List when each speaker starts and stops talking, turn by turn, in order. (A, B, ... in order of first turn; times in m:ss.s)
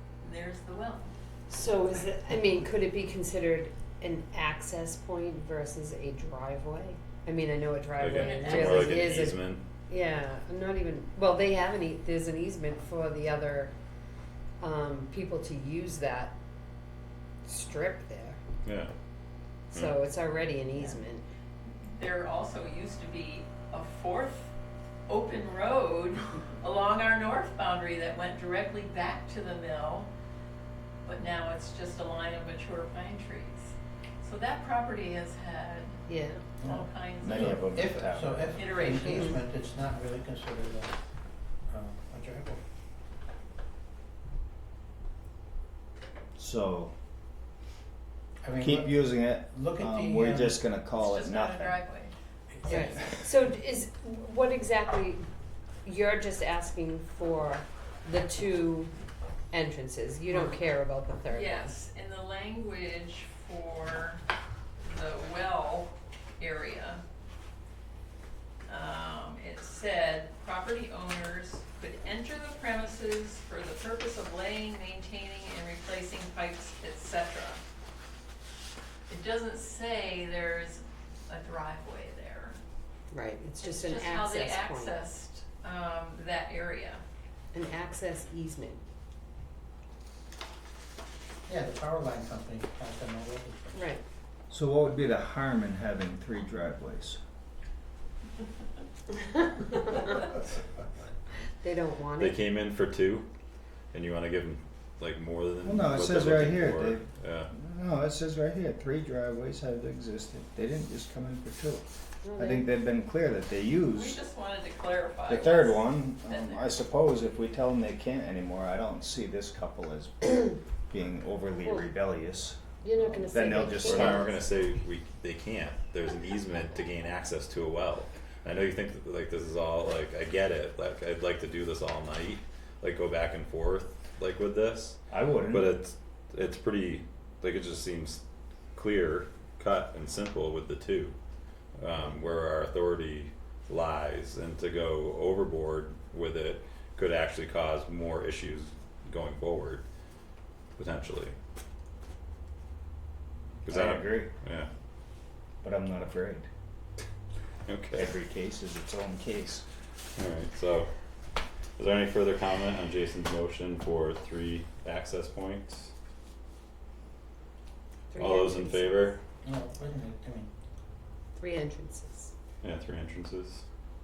0:00.2-0:01.1 A
0:01.5-0:13.7 B
0:08.0-0:09.6 C
0:08.1-0:09.0 A
0:14.6-0:16.3 B
0:17.4-0:18.4 B
0:18.6-0:18.9 C
0:19.7-0:21.2 B
0:22.0-0:24.5 A
0:25.1-0:30.1 A
0:31.0-0:36.0 A
0:36.1-0:36.4 B
0:36.6-0:40.9 D
0:36.6-0:37.9 A
0:37.2-0:38.9 E
0:38.5-0:39.4 A
0:41.7-0:42.6 D
0:46.4-0:46.9 E
0:48.4-0:50.6 D
0:48.6-0:51.8 E
0:51.0-0:52.1 A
0:52.5-0:53.3 D
0:52.6-0:55.2 B
0:55.8-0:58.9 B
0:59.5-1:01.8 B
1:00.3-1:00.5 A
1:01.3-1:04.2 A
1:04.8-1:07.0 A
1:08.7-1:17.6 A
1:19.1-1:22.6 A
1:23.1-1:25.0 B
1:23.6-1:27.0 A
1:27.5-1:28.8 B
1:31.5-1:33.9 D
1:33.7-1:34.0 B
1:34.5-1:37.2 E
1:39.4-1:40.0 B
1:41.6-1:42.4 B
1:42.2-1:43.3 C
1:43.9-1:47.5 C
1:45.6-1:51.8 E
1:52.2-1:52.7 B
1:52.4-1:54.2 E
1:53.9-1:56.8 A
1:55.3-2:04.3 E
2:02.8-2:04.3 B
2:03.8-2:18.2 C
2:15.1-2:15.7 E
2:18.7-2:21.2 C
2:21.8-2:29.8 C
2:30.8-2:31.3 C
2:33.6-2:34.3 E
2:33.6-2:34.7 C
2:35.6-2:36.5 E
2:37.6-2:38.1 C
2:37.9-2:39.6 E
2:40.2-2:40.9 C
2:41.8-2:45.9 C
2:48.1-2:49.2 B
2:48.1-2:49.2 C
2:49.4-2:50.5 D
2:51.4-2:52.3 B
2:52.6-2:53.6 C